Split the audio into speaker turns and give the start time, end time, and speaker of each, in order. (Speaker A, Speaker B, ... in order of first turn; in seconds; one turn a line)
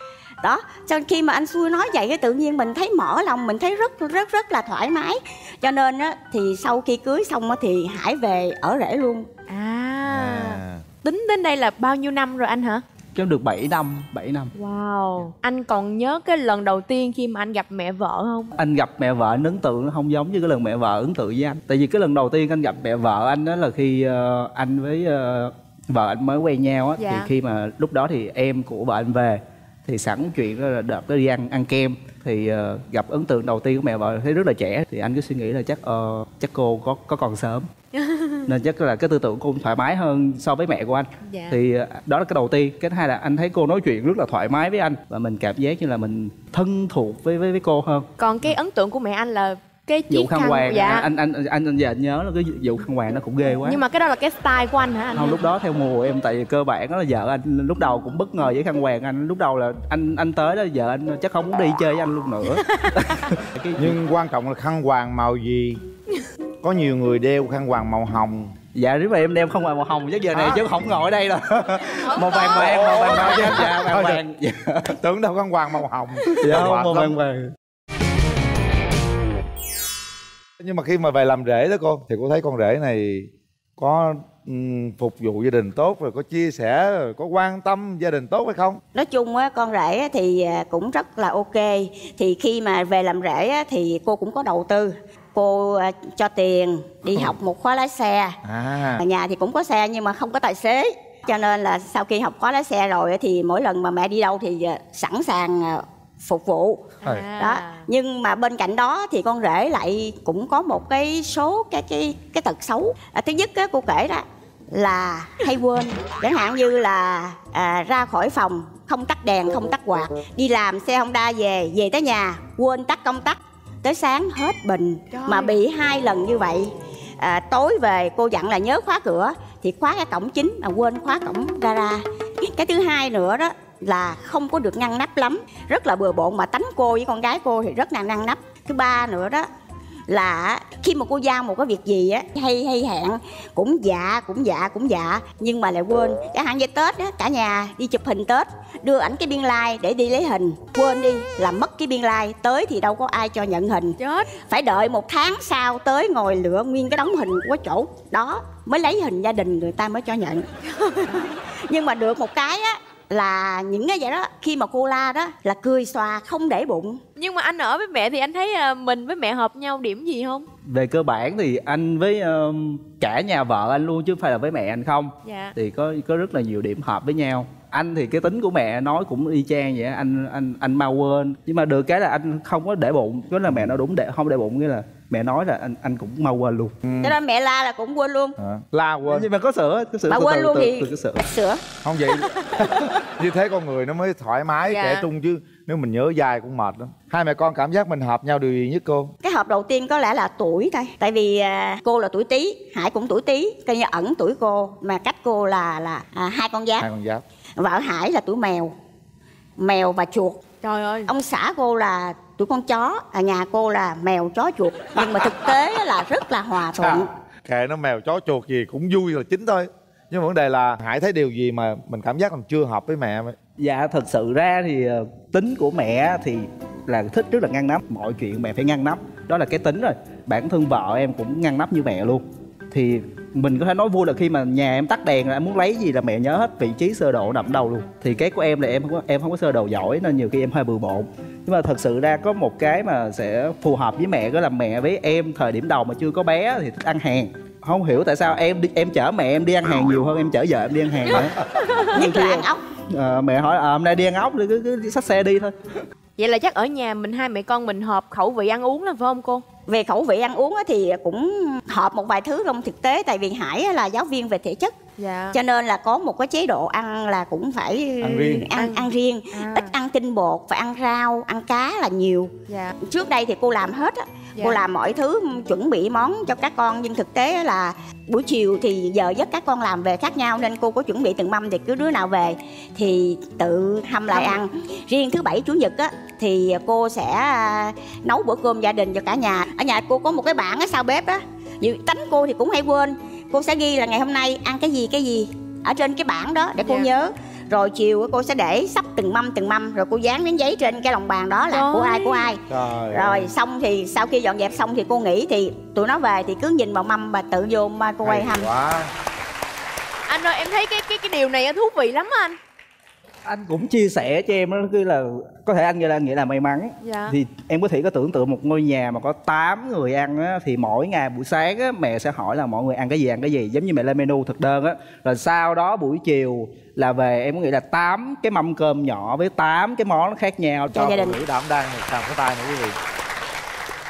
Speaker A: 0.4-9.3
Speaker B: 9.5-12.8
Speaker C: 10.1-10.8
Speaker D: 13.1-14.5
Speaker B: 14.6-18.5
Speaker D: 18.6-37.7
Speaker B: 27.0-27.3
Speaker B: 38.0-38.4
Speaker D: 38.5-48.1
Speaker B: 41.3-41.6
Speaker B: 48.2-51.0
Speaker D: 50.1-53.8
Speaker B: 53.6-55.4
Speaker D: 55.1-64.0
Speaker C: 63.8-65.8
Speaker C: 66.6-68.5
Speaker D: 68.7-75.0
Speaker C: 70.3-70.6
Speaker B: 71.9-72.7
Speaker C: 72.5-74.2
Speaker C: 75.0-77.1
Speaker D: 76.4-77.5
Speaker C: 80.6-88.8
Speaker A: 88.9-98.4
Speaker C: 98.4-99.0
Speaker A: 99.0-139.5
Speaker B: 107.0-107.9
Speaker B: 125.1-125.6
Speaker A: 140.1-167.0
Speaker B: 154.0-154.3
Speaker B: 167.2-170.4
Speaker D: 170.6-186.7
Speaker B: 175.2-175.5
Speaker C: 186.8-187.1
Speaker A: 187.0-188.3
Speaker C: 188.4-189.3
Speaker D: 189.1-191.2
Speaker A: 190.1-191.6
Speaker C: 191.8-199.1
Speaker B: 194.7-195.1
Speaker A: 199.2-206.9
Speaker C: 206.8-207.2
Speaker A: 207.6-208.7
Speaker A: 209.6-210.4
Speaker B: 210.6-211.1
Speaker A: 211.1-217.1
Speaker C: 216.8-223.3
Speaker D: 223.6-251.3
Speaker A: 251.9-252.6
Speaker D: 251.9-255.5
Speaker B: 256.2-259.4
Speaker A: 259.7-264.8
Speaker B: 265.0-265.4
Speaker A: 265.3-272.3
Speaker C: 268.0-268.4
Speaker B: 268.5-269.7
Speaker B: 272.5-272.8
Speaker A: 272.8-308.5
Speaker B: 284.1-284.4
Speaker B: 296.6-296.9
Speaker B: 301.5-302.3
Speaker C: 302.5-303.3
Speaker C: 308.0-308.9
Speaker B: 310.1-312.4
Speaker D: 313.2-330.9
Speaker B: 316.8-317.1
Speaker C: 330.7-332.8
Speaker A: 330.8-331.2